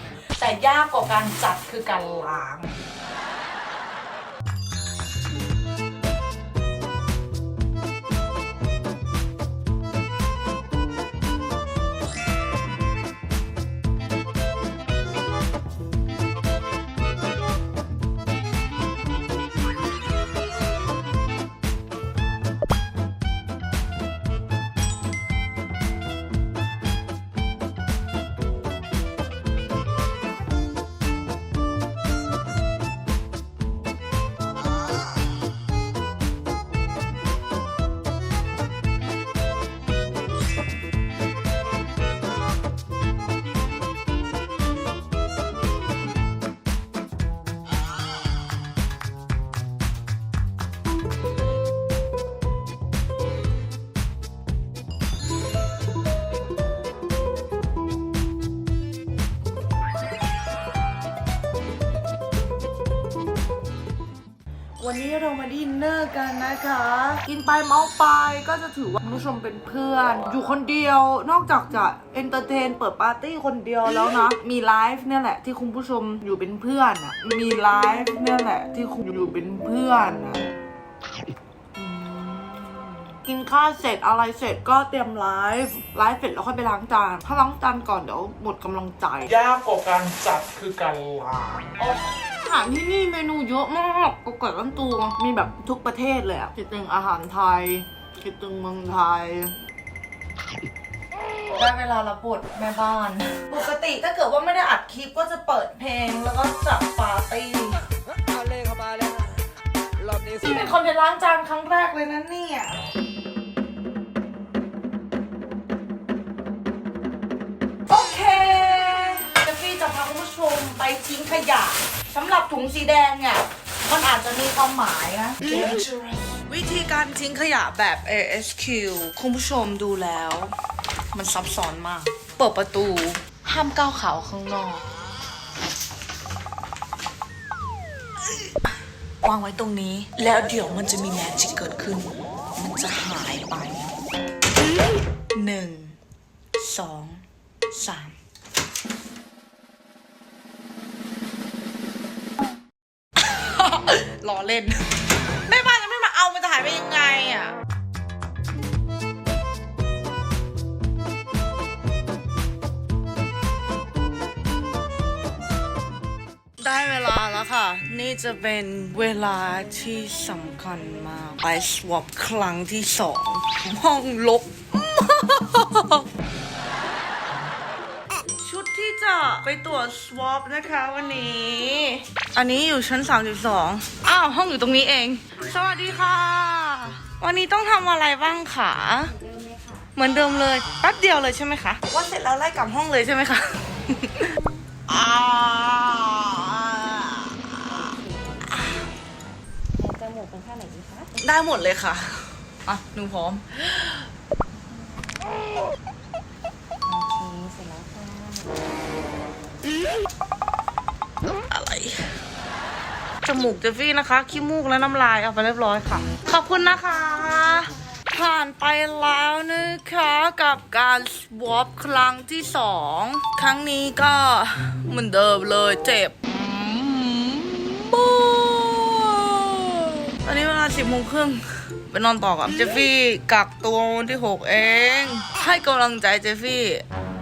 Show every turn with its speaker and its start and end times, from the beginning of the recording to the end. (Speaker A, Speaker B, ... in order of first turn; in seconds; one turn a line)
Speaker A: 0.4-2.7
Speaker A: 64.8-80.4
Speaker A: 81.7-89.6
Speaker B: 89.4-91.6
Speaker A: 91.6-99.5
Speaker A: 101.5-107.8
Speaker A: 110.1-112.8
Speaker A: 117.9-130.5
Speaker A: 131.1-134.8
Speaker A: 139.2-143.9
Speaker A: 145.3-146.0
Speaker A: 146.6-148.2
Speaker A: 153.2-154.8
Speaker A: 155.4-157.6
Speaker A: 166.6-176.1
Speaker A: 178.4-189.1
Speaker C: 189.2-189.8
Speaker A: 189.9-194.3
Speaker A: 194.9-197.8
Speaker C: 197.7-198.9
Speaker A: 198.4-198.9
Speaker C: 199.8-201.2
Speaker A: 201.2-204.0
Speaker C: 206.9-208.6
Speaker A: 211.5-212.1
Speaker A: 213.2-236.8